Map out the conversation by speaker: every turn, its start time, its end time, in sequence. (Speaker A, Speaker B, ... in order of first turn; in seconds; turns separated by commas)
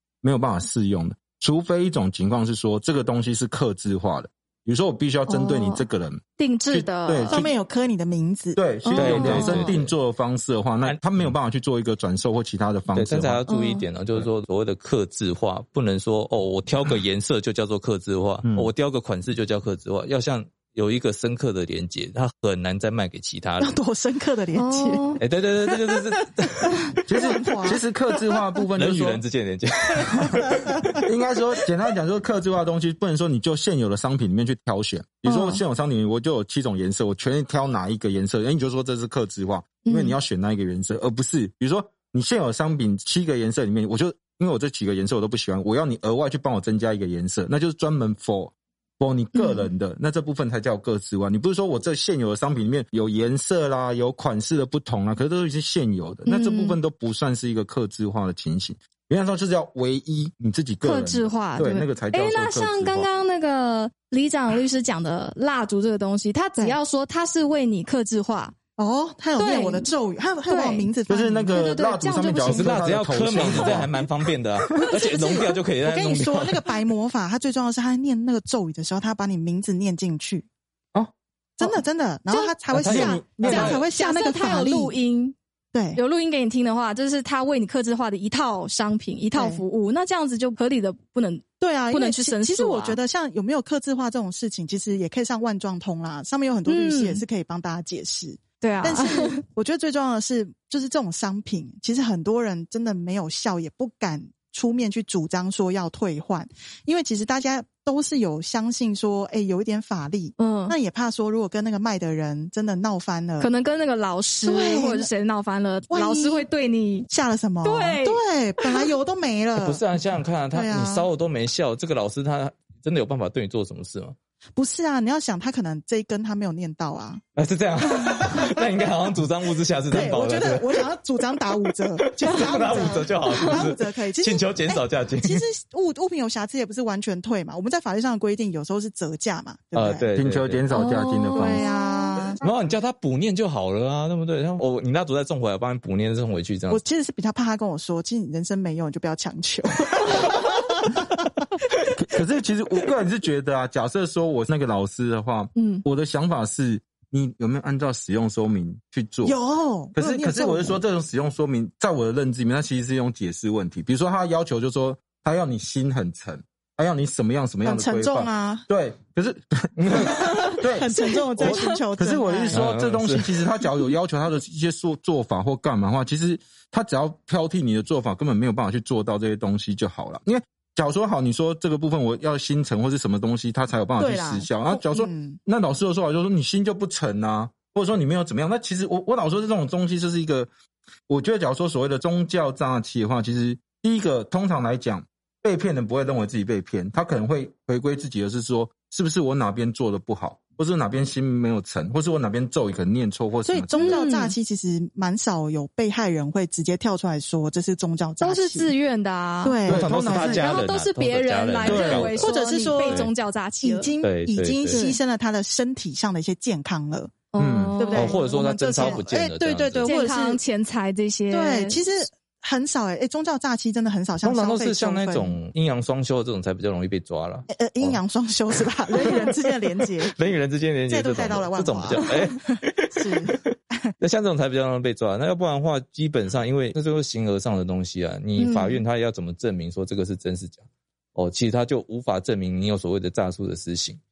Speaker A: 0.2-7.5, Speaker B: 5.3-5.8, Speaker B: 6.4-7.4, Speaker C: 7.3-9.2, Speaker A: 8.6-13.4, Speaker B: 8.8-9.8, Speaker D: 8.9-9.9, Speaker D: 10.8-11.3, Speaker D: 12.9-23.8, Speaker B: 13.5-13.9, Speaker C: 23.6-25.1, Speaker B: 24.6-25.2, Speaker D: 25.2-26.8, Speaker C: 25.7-28.4, Speaker A: 27.1-29.2, Speaker D: 28.8-30.6, Speaker C: 30.2-30.7, Speaker A: 30.9-63.1, Speaker B: 35.2-35.6, Speaker B: 39.8-40.1, Speaker B: 49.4-49.7, Speaker B: 56.3-56.8, Speaker B: 60.8-68.5, Speaker C: 68.8-71.7, Speaker B: 69.4-69.9, Speaker B: 70.5-70.9, Speaker A: 71.1-74.0, Speaker B: 71.5-73.9, Speaker D: 72.4-76.7, Speaker C: 74.9-80.5, Speaker C: 81.6-85.0, Speaker B: 82.3-82.5, Speaker D: 82.7-83.8, Speaker A: 82.8-83.8, Speaker B: 83.3-85.4, Speaker C: 85.7-86.0, Speaker B: 86.0-93.0, Speaker C: 89.3-89.7, Speaker C: 91.6-113.5, Speaker B: 96.7-97.2, Speaker B: 98.6-99.4, Speaker B: 110.4-110.8, Speaker B: 113.4-117.1, Speaker C: 114.4-115.1, Speaker C: 115.9-116.5, Speaker C: 117.1-119.8, Speaker B: 117.6-118.9, Speaker D: 119.5-124.2, Speaker C: 120.5-121.1, Speaker C: 124.6-127.2, Speaker D: 127.4-130.9, Speaker C: 129.9-140.1, Speaker D: 132.0-135.4, Speaker D: 139.7-140.7, Speaker A: 140.2-141.6, Speaker B: 140.7-142.2, Speaker C: 141.4-142.4, Speaker D: 142.4-146.8, Speaker C: 146.7-151.3, Speaker A: 152.0-159.4, Speaker B: 155.6-155.8, Speaker C: 159.2-160.8, Speaker A: 159.9-170.1, Speaker C: 167.6-168.7, Speaker D: 169.8-170.2, Speaker C: 170.0-172.7, Speaker A: 170.6-190.5, Speaker D: 172.5-173.4, Speaker C: 184.0-185.4, Speaker A: 191.1-204.0, Speaker C: 203.5-208.8, Speaker B: 203.8-204.3, Speaker B: 208.2-209.6, Speaker C: 209.4-210.5, Speaker A: 209.7-210.6, Speaker D: 209.7-213.1, Speaker B: 210.3-213.9, Speaker A: 211.6-212.1, Speaker C: 211.7-213.0, Speaker C: 213.6-219.2, Speaker D: 214.0-214.8, Speaker B: 214.7-215.0, Speaker B: 217.3-221.8, Speaker A: 217.4-217.8, Speaker D: 217.9-219.9, Speaker C: 219.8-220.4, Speaker C: 221.3-225.4, Speaker D: 224.2-228.0, Speaker C: 227.5-230.1, Speaker D: 228.9-229.2, Speaker D: 230.0-233.5, Speaker C: 230.9-233.9, Speaker D: 234.0-240.6, Speaker B: 238.4-238.8, Speaker D: 241.2-244.0